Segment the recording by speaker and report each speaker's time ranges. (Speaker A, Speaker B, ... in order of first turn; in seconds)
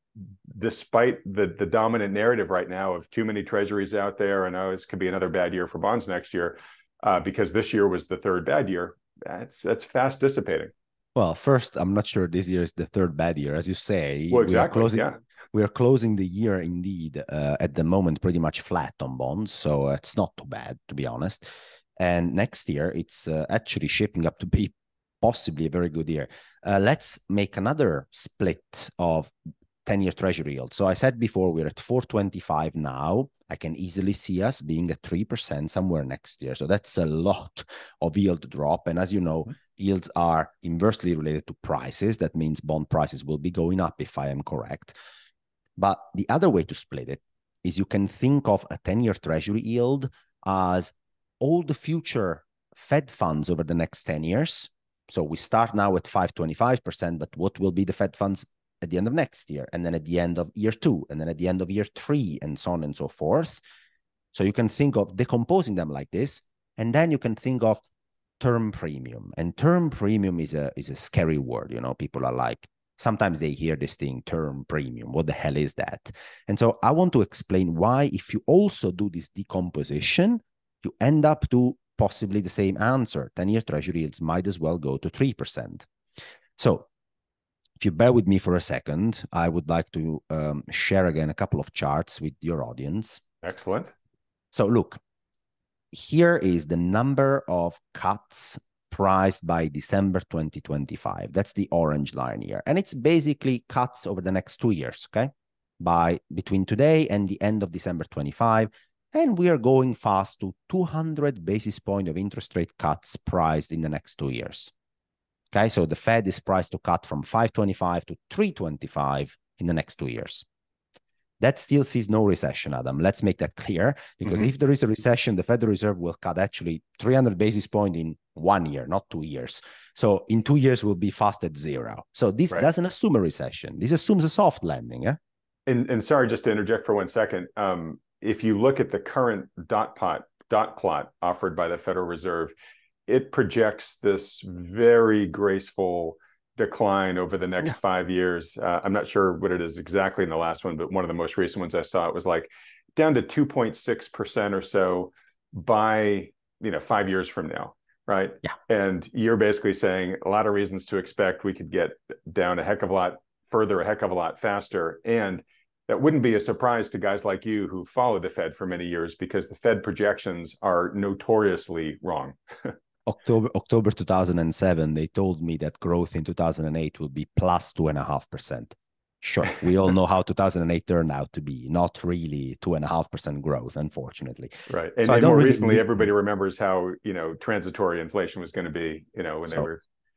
Speaker A: 0.5-10.7, 14.3-15.2, 93.4-93.9, 135.7-142.5, 143.1-172.7, 184.7-189.8
Speaker B: 11.1-29.3, 29.8-44.9, 45.8-63.6, 64.3-67.8, 68.4-85.8, 86.6-86.9, 87.8-93.2, 94.5-95.0, 95.9-114.7, 115.5-120.4, 121.4-135.2, 173.1-186.1